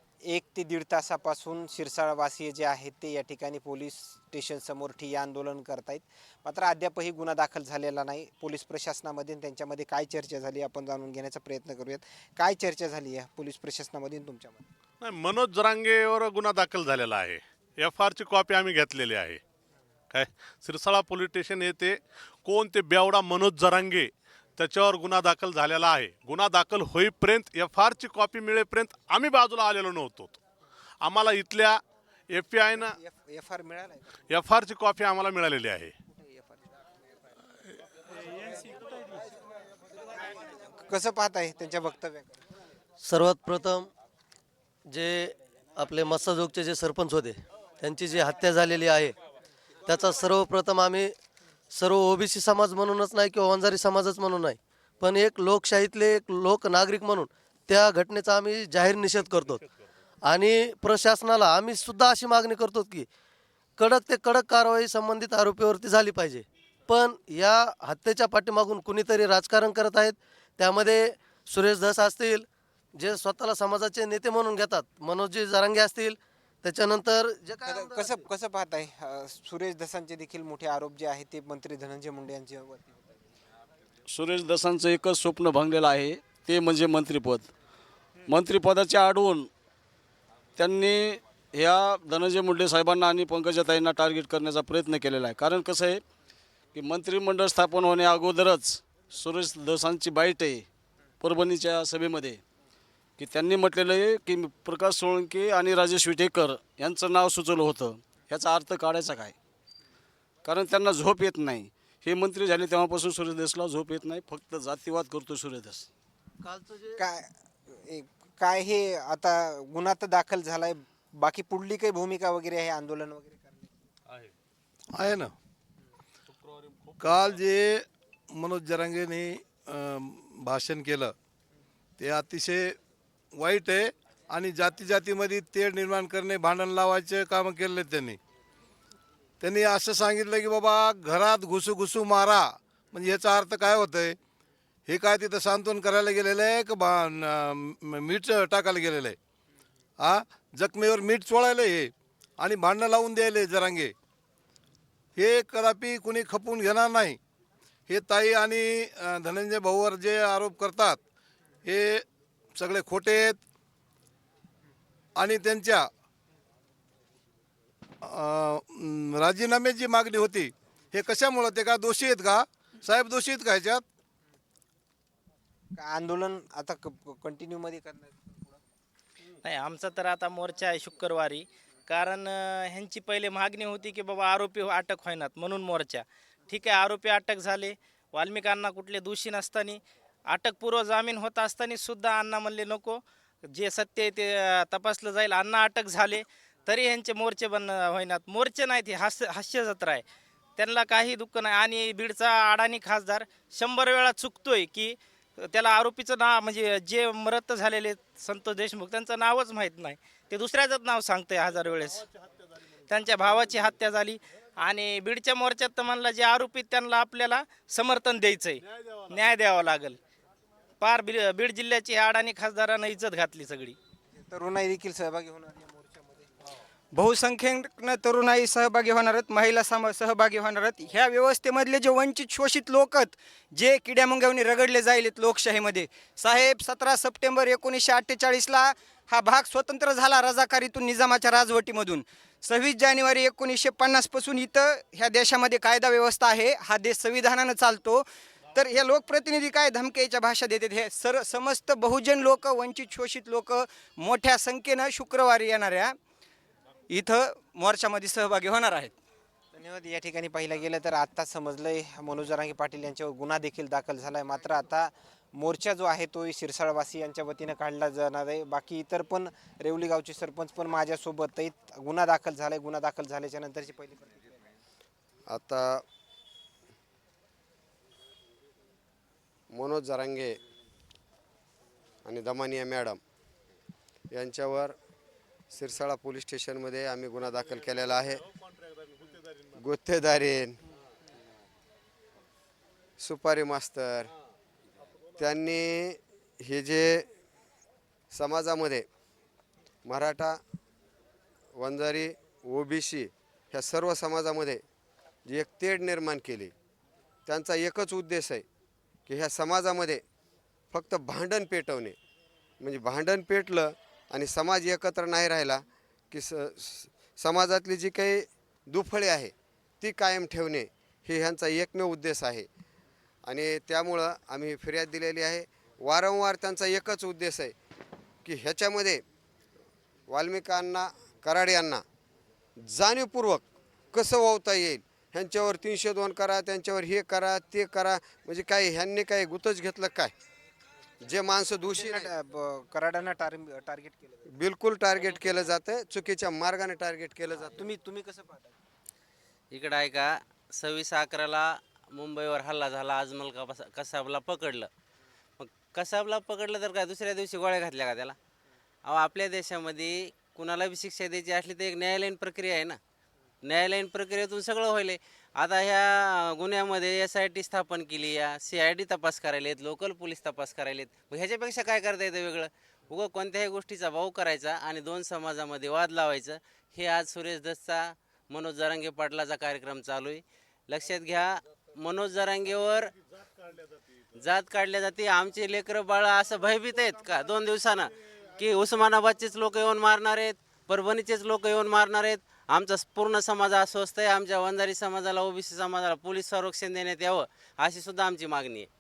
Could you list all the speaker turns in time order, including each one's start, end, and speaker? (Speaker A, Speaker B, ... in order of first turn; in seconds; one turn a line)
Speaker A: 0.2-14.7
Speaker B: 15.0-19.4
Speaker B: 20.1-30.4
Speaker B: 31.0-31.8
Speaker B: 32.3-33.0
Speaker A: 32.7-34.4
Speaker B: 34.3-35.9
Speaker A: 36.1-36.8
Speaker A: 40.3-42.4
Speaker C: 43.0-43.9
Speaker C: 44.9-49.2
Speaker C: 49.9-51.1
Speaker C: 51.7-59.6
Speaker C: 60.2-63.1
Speaker C: 63.8-72.5
Speaker C: 73.0-78.2
Speaker A: 77.7-83.0
Speaker D: 84.1-87.5
Speaker D: 88.3-89.5
Speaker D: 90.6-96.0
Speaker D: 96.7-100.7
Speaker D: 101.2-102.4
Speaker D: 103.2-109.3
Speaker D: 110.5-115.9
Speaker C: 116.4-117.0
Speaker A: 117.0-123.7
Speaker E: 124.9-125.3
Speaker E: 127.0-131.2
Speaker E: 132.0-132.8
Speaker E: 133.3-138.2
Speaker E: 139.4-144.2
Speaker E: 144.9-149.2
Speaker E: 150.0-153.9
Speaker E: 155.2-157.2
Speaker E: 157.9-161.0
Speaker E: 161.7-162.0
Speaker E: 162.6-163.4
Speaker E: 165.2-165.9
Speaker E: 168.1-173.8
Speaker A: 175.8-178.6
Speaker F: 179.4-193.0
Speaker F: 193.5-200.0
Speaker F: 200.6-212.1
Speaker F: 212.9-220.0
Speaker F: 220.8-223.8
Speaker A: 224.1-226.3
Speaker G: 226.9-256.0
Speaker G: 256.9-258.9
Speaker A: 259.5-274.4
Speaker H: 275.3-275.8
Speaker H: 279.5-280.4
Speaker H: 282.0-283.0
Speaker H: 284.1-284.8
Speaker H: 285.5-288.2
Speaker H: 289.6-290.6
Speaker H: 293.0-294.1
Speaker H: 295.2-297.1
Speaker H: 298.1-298.9
Speaker H: 299.8-300.4
Speaker H: 301.6-304.6
Speaker H: 305.2-306.5
Speaker H: 307.3-308.4
Speaker H: 309.1-310.0
Speaker H: 310.7-311.9
Speaker H: 312.6-322.5
Speaker H: 323.2-327.5
Speaker H: 328.2-329.0
Speaker H: 330.1-331.8
Speaker H: 332.6-340.1
Speaker H: 341.0-342.1
Speaker A: 341.7-344.3
Speaker H: 344.4-347.7
Speaker A: 347.3-348.5
Speaker I: 349.5-354.7
Speaker I: 355.4-358.2
Speaker I: 358.8-362.8
Speaker I: 363.4-382.9
Speaker I: 384.2-398.7